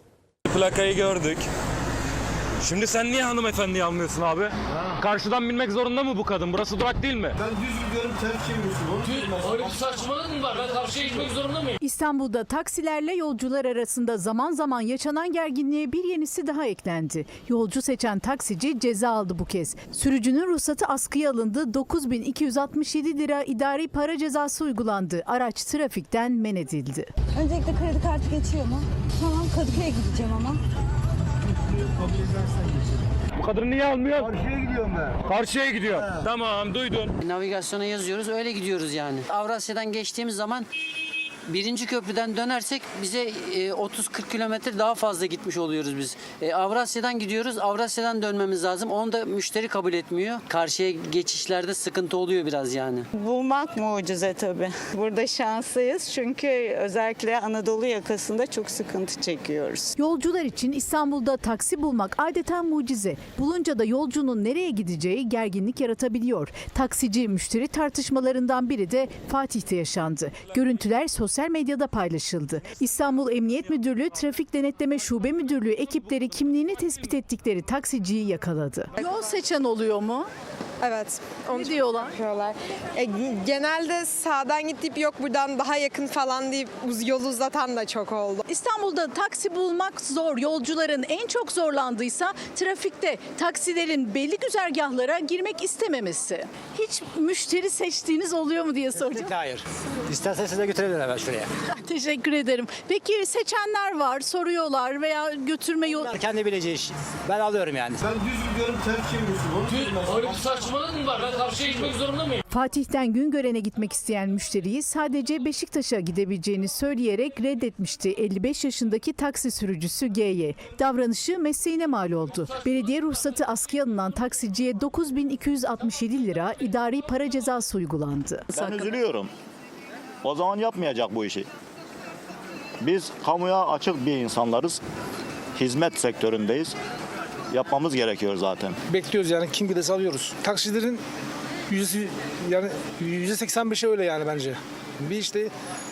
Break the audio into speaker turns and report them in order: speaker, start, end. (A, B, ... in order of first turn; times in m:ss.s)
0:00.5-0:01.4 A
0:02.6-0:07.4 A
0:07.6-0:09.0 B
0:09.6-0:11.7 C
0:11.8-0:27.1 D
0:27.4-0:30.6 E
0:33.4-0:34.3 A
0:35.2-0:37.1 A
0:37.2-0:40.7 F
0:41.5-0:53.1 F
0:53.1-0:59.9 G
1:00.0-1:20.3 D
1:20.8-1:28.4 H
1:21.5-1:22.2 D
1:28.5-1:39.3 D
1:39.0-1:41.5 I
1:41.7-1:46.1 D
1:45.9-1:48.1 I
1:48.4-1:50.0 B
1:50.7-1:52.3 C
1:52.5-2:08.9 D
2:08.5-2:09.3 J
2:10.2-2:11.5 J
2:12.8-2:14.8 J
2:15.6-2:16.8 J
2:17.5-2:18.8 J
2:18.9-2:21.0 K
2:21.7-2:25.5 K